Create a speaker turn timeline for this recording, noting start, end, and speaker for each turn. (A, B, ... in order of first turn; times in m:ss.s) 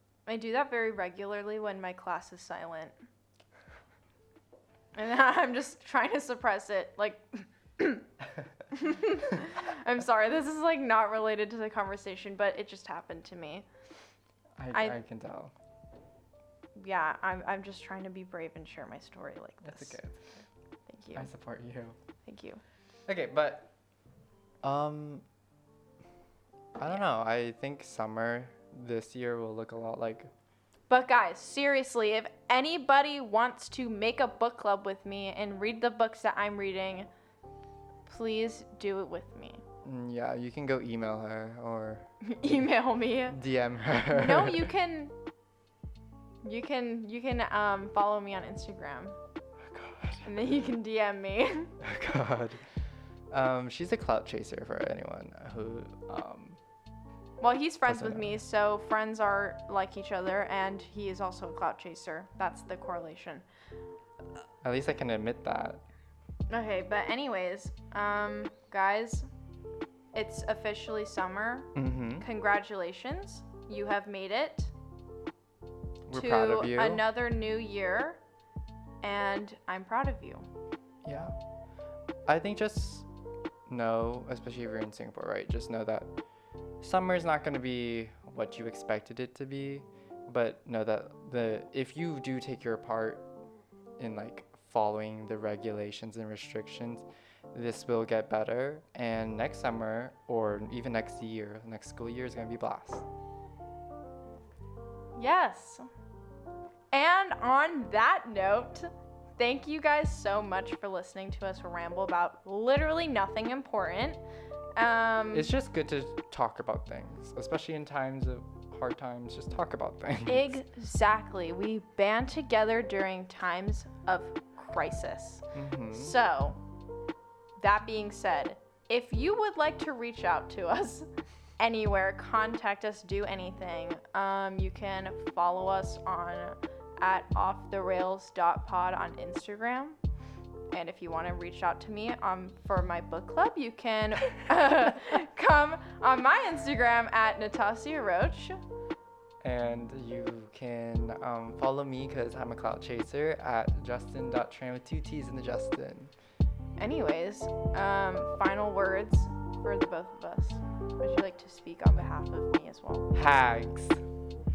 0:00.3-0:02.9 A
0:05.0-0:08.1 A
0:08.7-0:13.7 A
0:14.6-0:15.5 B
0:16.8-0:20.0 A
0:19.6-0:20.5 B
0:20.9-0:21.3 A
0:21.2-0:22.0 B
0:22.3-0:22.6 A
0:23.1-0:23.7 B
0:24.6-0:25.2 B
0:26.8-0:30.3 B
0:30.9-0:37.1 A
0:38.1-0:39.6 A
0:39.8-0:42.7 B
0:42.2-0:43.4 A
0:43.3-0:44.7 B
0:44.1-0:45.1 A
0:46.4-0:49.2 A
0:49.6-0:50.3 B
0:50.2-0:51.7 A
0:51.8-0:52.6 B
0:53.3-0:56.6 B
0:57.4-1:03.4 A
0:57.8-0:58.4 B
1:04.6-1:05.8 B
1:06.5-1:09.3 A
1:10.1-1:14.7 A
1:11.8-1:12.2 B
1:16.1-1:17.0 B
1:16.1-1:18.2 A
1:19.0-1:20.5 A
1:21.0-1:21.3 B
1:22.3-1:23.1 B
1:23.7-1:26.1 B
1:26.8-1:33.2 B
1:34.0-1:43.0 B
1:45.2-1:45.9 A
1:46.9-1:54.2 A
1:54.8-1:55.5 A
1:55.3-2:00.6 B
2:00.3-2:06.6 A
2:05.5-2:06.2 B
2:07.6-2:11.1 A
2:11.6-2:20.0 A
2:20.7-2:28.6 A
2:29.4-2:36.1 B
2:36.8-2:43.1 A
2:43.1-2:44.0 B